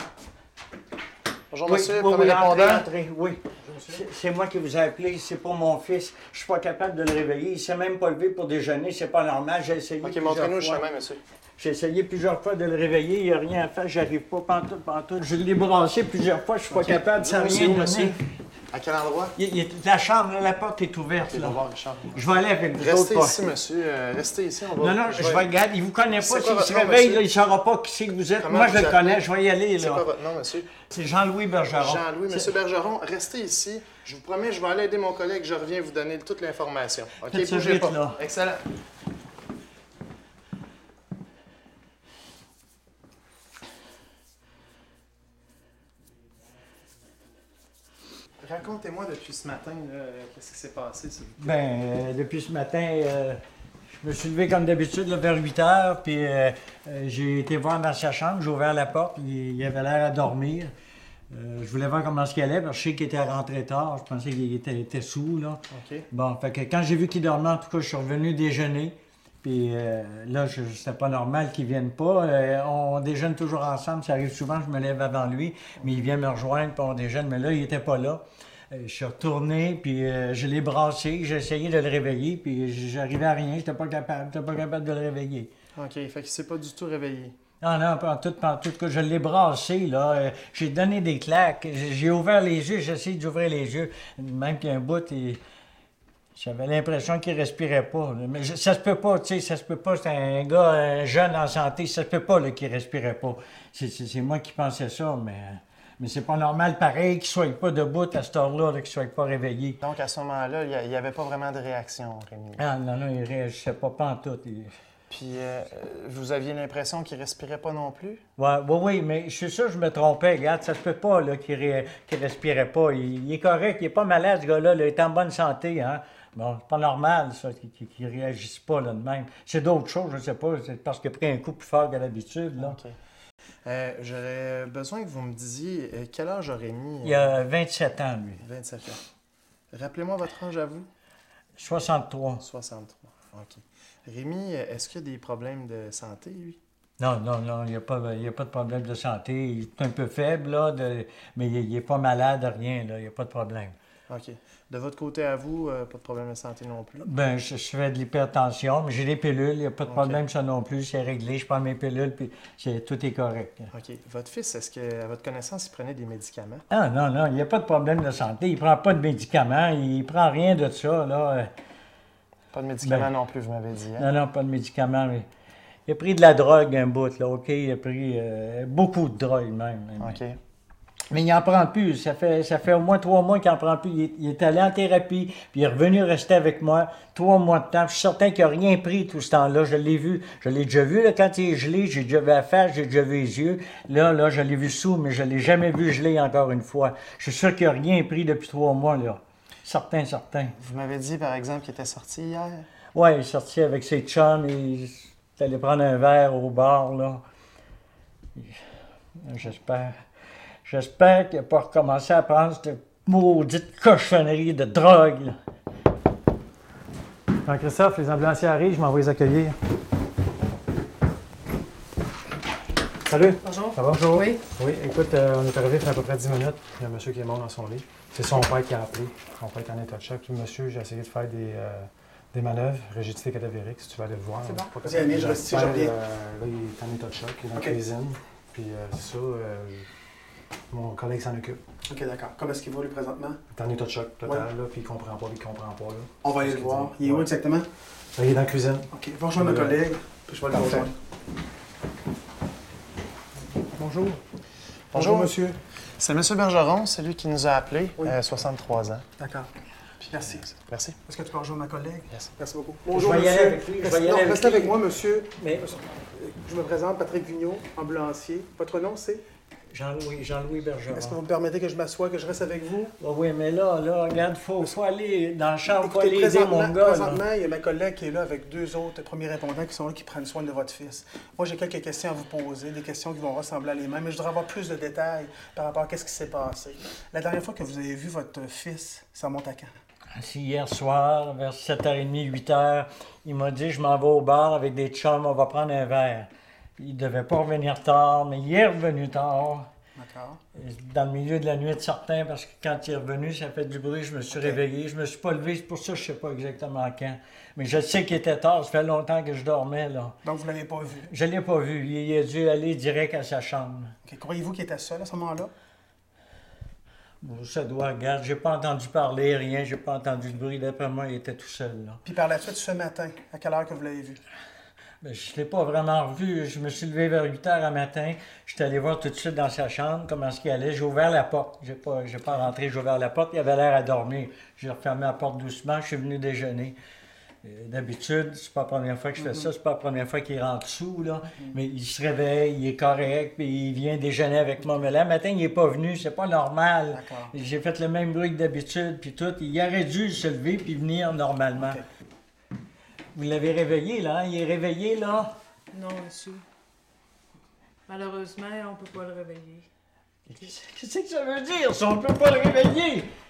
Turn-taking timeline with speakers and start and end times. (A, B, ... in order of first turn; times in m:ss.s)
0:01.5-0:02.8 A
0:01.7-0:10.8 B
0:10.0-0:11.2 A
0:11.6-0:18.2 B
0:16.7-0:18.2 A
0:18.7-0:19.4 A
0:19.4-0:21.6 B
0:21.3-0:22.2 A
0:22.1-0:23.4 B
0:22.8-0:25.4 A
0:24.8-0:30.0 B
0:26.2-0:27.2 A
0:28.4-0:29.2 A
0:29.8-0:30.7 A
0:30.9-0:32.5 B
0:31.8-0:38.6 A
0:37.2-0:38.2 B
0:48.4-0:51.6 A
0:51.4-0:53.4 B
0:54.0-1:00.7 B
1:01.3-1:25.5 B
1:05.7-1:06.1 A
1:25.8-1:27.4 A
1:27.6-1:35.4 B
1:36.4-1:49.8 B
1:49.8-1:52.6 A
1:52.6-1:54.7 B
1:55.1-1:58.2 A
1:58.4-2:12.8 B
2:12.6-2:13.0 A
2:13.6-2:17.3 A
2:17.0-2:18.4 B
2:18.4-2:19.0 A
2:19.7-2:20.9 A
2:21.6-2:22.4 B
2:22.4-2:26.6 A
2:27.0-2:33.8 B
2:34.1-2:37.1 A
2:37.0-2:43.7 B
2:39.9-2:40.2 A
2:43.7-2:46.6 A
2:46.7-2:51.5 B
2:52.5-2:54.1 A
2:52.8-2:53.1 B
2:54.0-2:55.3 B
2:55.9-3:00.2 B
3:00.0-3:00.4 A
3:01.1-3:20.5 B
3:20.6-3:22.7 A
3:22.9-3:27.2 B
3:29.2-3:29.9 B
3:30.6-3:35.4 B
3:37.4-3:39.6 C
3:43.1-3:59.9 C
3:44.1-3:44.4 D
3:54.4-3:54.7 D
3:54.8-3:56.0 E
4:00.7-4:01.6 C
4:01.9-4:03.4 E
4:03.5-4:07.3 C
4:06.2-4:07.7 E
4:08.2-4:09.8 C
4:08.9-4:10.9 E
4:10.5-4:10.9 C
4:13.7-4:14.2 E
4:14.9-4:15.6 E
4:15.0-4:15.4 A
4:16.0-4:19.0 A
4:19.2-4:29.2 E
4:20.6-4:21.0 A
4:22.9-4:24.8 B
4:25.4-4:25.7 B
4:29.7-4:31.2 B
4:30.9-4:33.0 E
4:33.0-4:37.2 B
4:35.7-4:49.7 E
4:50.1-4:59.7 B
5:00.0-5:00.4 E
5:00.6-5:10.1 B
5:04.3-5:04.6 E
5:10.2-5:11.1 E
5:11.0-5:13.9 B
5:14.0-5:15.5 E
5:17.2-5:22.0 B
5:22.0-5:24.2 E
5:25.0-5:36.8 B
5:37.4-5:51.8 B
5:39.2-5:39.5 E
5:46.9-5:47.4 E
5:51.6-5:51.8 E
5:53.1-5:55.3 B
5:55.7-5:56.4 D
5:57.9-5:59.7 D
6:00.3-6:03.1 B